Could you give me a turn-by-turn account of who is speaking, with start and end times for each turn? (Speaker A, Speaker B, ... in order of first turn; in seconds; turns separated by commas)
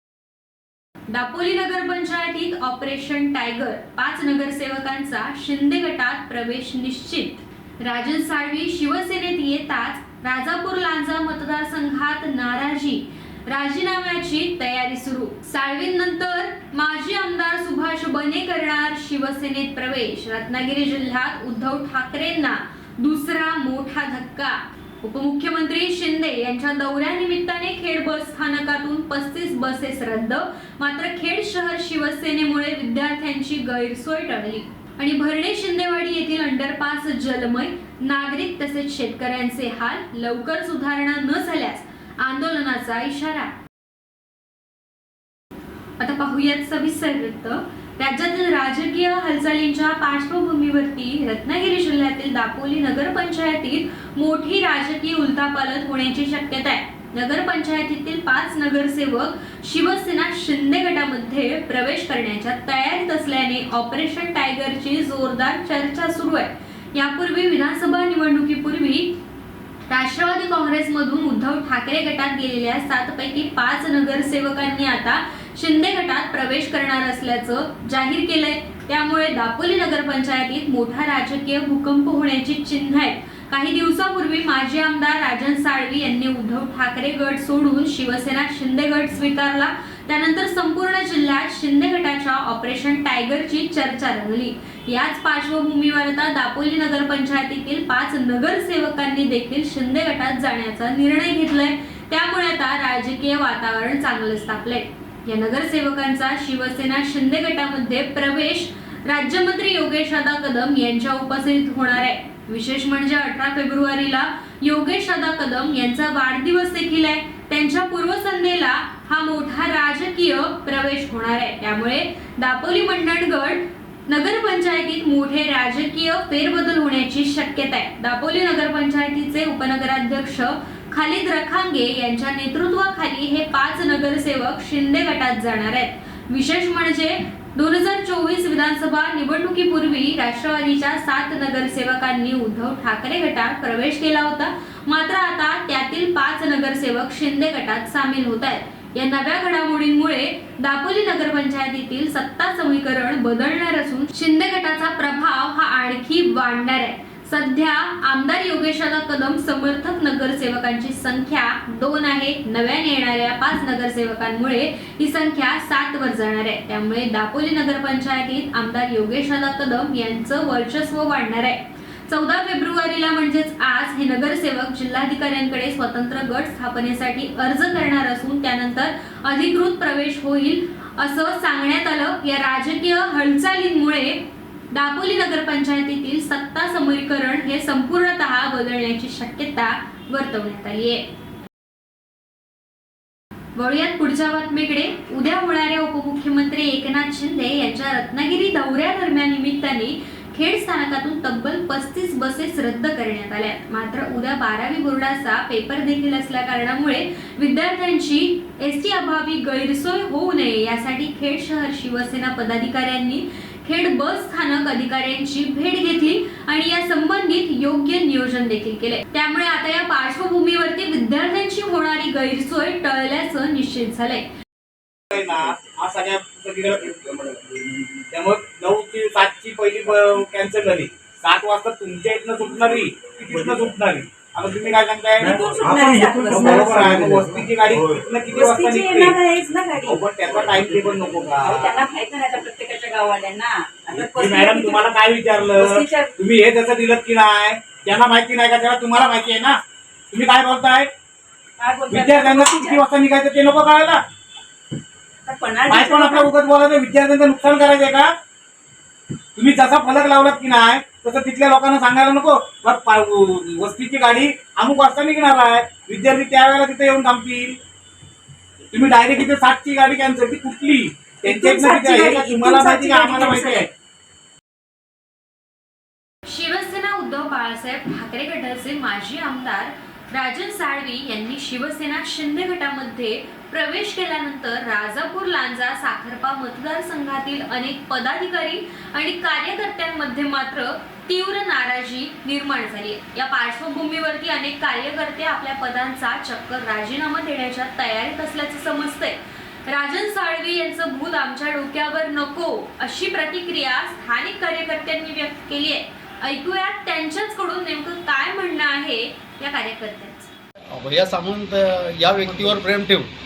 Speaker A: 1.1-43.5, Speaker A: 46.0-69.1, Speaker A: 69.9-191.0, Speaker A: 193.6-224.3, Speaker B: 225.1-227.6, Speaker B: 228.1-235.7, Speaker C: 235.3-236.7, Speaker B: 236.3-239.2, Speaker C: 238.3-240.0, Speaker B: 239.9-241.7, Speaker C: 241.4-244.9, Speaker B: 243.9-249.6, Speaker C: 245.6-246.1, Speaker B: 250.1-250.9, Speaker C: 251.6-252.8, Speaker B: 251.9-254.0, Speaker C: 255.2-256.3, Speaker B: 255.7-258.1, Speaker B: 259.4-267.6, Speaker B: 268.7-273.7, Speaker C: 271.2-273.6, Speaker A: 276.3-310.3, Speaker D: 310.7-313.1